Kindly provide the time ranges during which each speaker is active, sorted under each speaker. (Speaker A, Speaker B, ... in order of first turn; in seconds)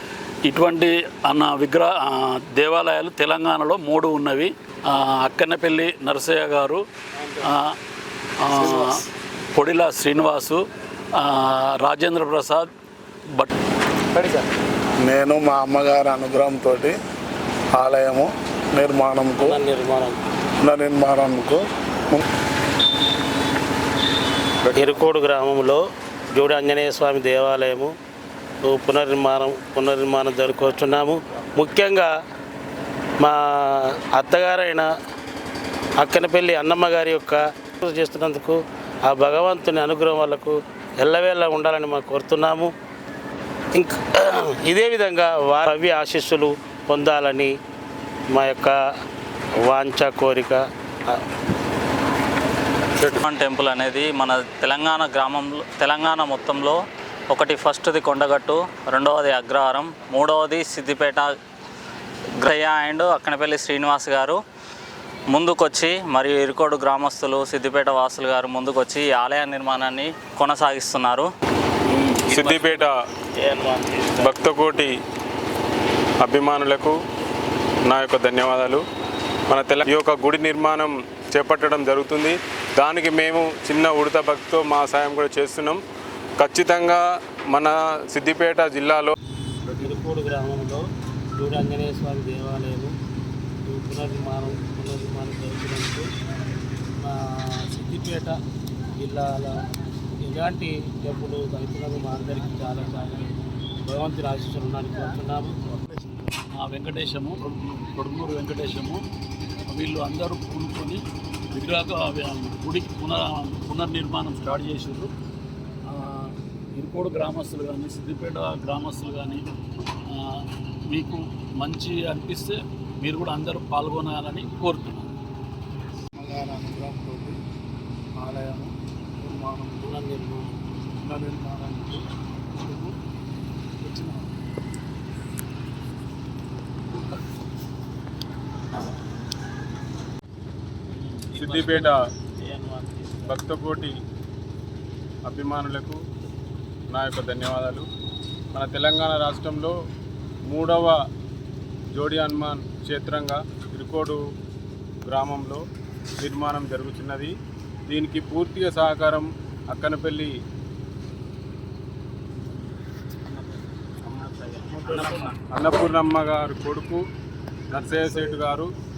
Speaker A: 0.5-6.8, 7.4-7.8, 8.4-10.7, 11.2-12.7, 106.6-109.0, 109.7-111.0, 111.5-115.1, 115.9-119.5, 120.1-125.1, 126.2-127.4, 128.2-129.9, 131.0-132.0, 132.6-132.9, 133.8-134.3
Speaker B: 14.1-14.5, 15.0-17.0, 17.8-19.6, 20.6-22.2
Speaker C: 19.4-20.2, 24.7-25.8, 26.3-27.9, 28.6-32.1, 33.2-34.9, 36.0-42.7, 43.7-47.5, 48.3-48.8, 49.6-51.2, 71.9-72.8, 73.4-74.3, 89.8-90.8, 91.4-92.9, 93.7-96.0, 97.0-98.4, 99.0-99.5, 100.3-103.3, 103.8-105.6, 129.8-130.5, 141.3-143.4, 164.0-165.4
Speaker D: 53.0-56.8, 57.3-61.3, 62.4-64.4, 65.3-71.3
Speaker E: 72.3-73.0, 74.2-74.9, 76.2-77.0, 77.9-78.8, 79.5-85.8, 86.4-89.1, 141.3-142.0, 143.3-143.9, 145.3-146.0, 146.9-147.9, 148.5-149.7, 150.5-151.0, 151.9-154.2, 155.1-155.6, 156.2-157.3, 157.9-160.3, 165.5-167.0, 167.7-168.7